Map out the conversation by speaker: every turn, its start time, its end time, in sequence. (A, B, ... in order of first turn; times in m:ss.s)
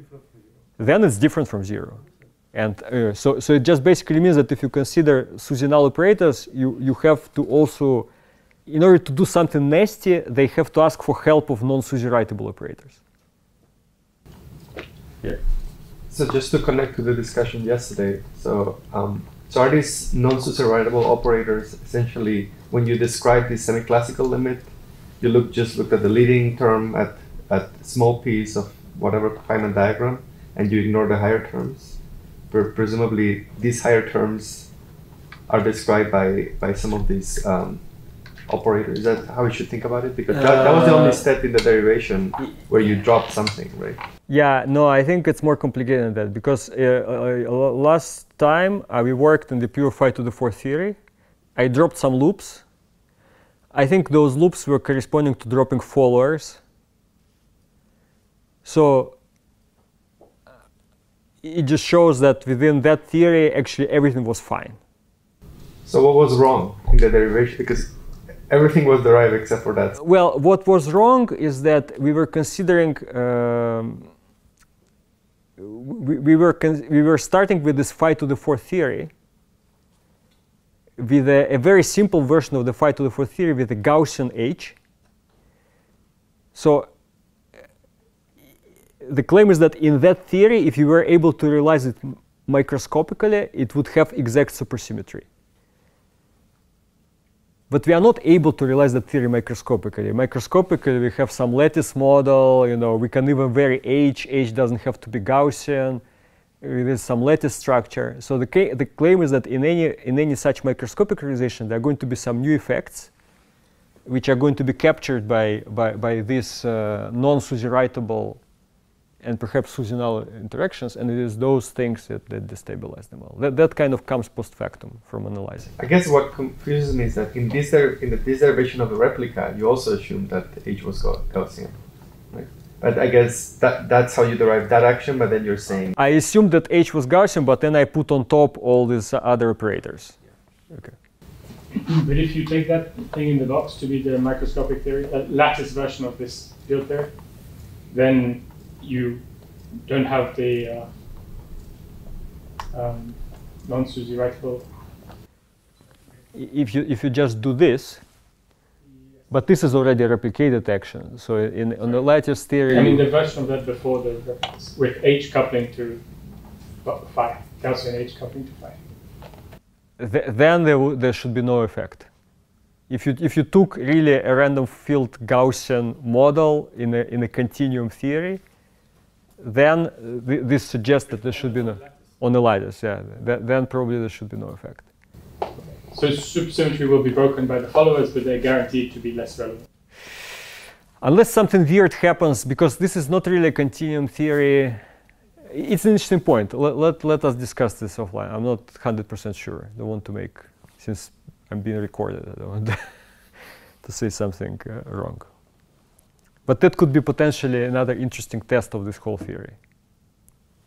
0:00.8-0:08.1 A
0:08.7-0:13.0 A
0:16.1-0:24.7 B
0:25.2-0:32.0 B
0:32.5-0:34.7 B
0:35.5-0:37.8 B
0:38.5-0:44.0 B
0:40.3-0:41.2 A
0:44.3-0:51.0 A
0:51.6-0:52.6 A
0:53.7-0:56.6 A
0:58.6-0:59.2 A
1:01.4-1:04.8 A
1:05.8-1:07.9 B
1:08.5-1:09.9 B
1:10.0-1:14.1 A
1:15.6-1:19.1 A
1:21.0-1:24.8 A
1:26.5-1:26.9 A
1:29.0-1:35.2 A
1:37.7-1:46.0 A
1:46.6-1:53.1 A
1:54.0-1:58.4 A
1:59.2-2:05.7 A
2:05.8-2:11.8 B
2:12.3-2:15.9 B
2:16.0-2:20.2 A
2:21.8-2:27.1 C
2:27.9-2:29.2 C
2:29.8-2:30.9 C
2:32.7-2:34.6 C
2:36.3-2:38.0 A
2:39.3-2:43.1 A
2:42.7-2:46.0 C
2:46.8-2:48.8 C
2:50.0-2:52.1 A
2:52.9-2:58.4 A
2:59.4-3:04.9 A
3:05.9-3:09.6 C
3:11.0-3:14.8 A
3:15.5-3:22.8 A
3:23.8-3:25.2 A
3:26.5-3:29.6 A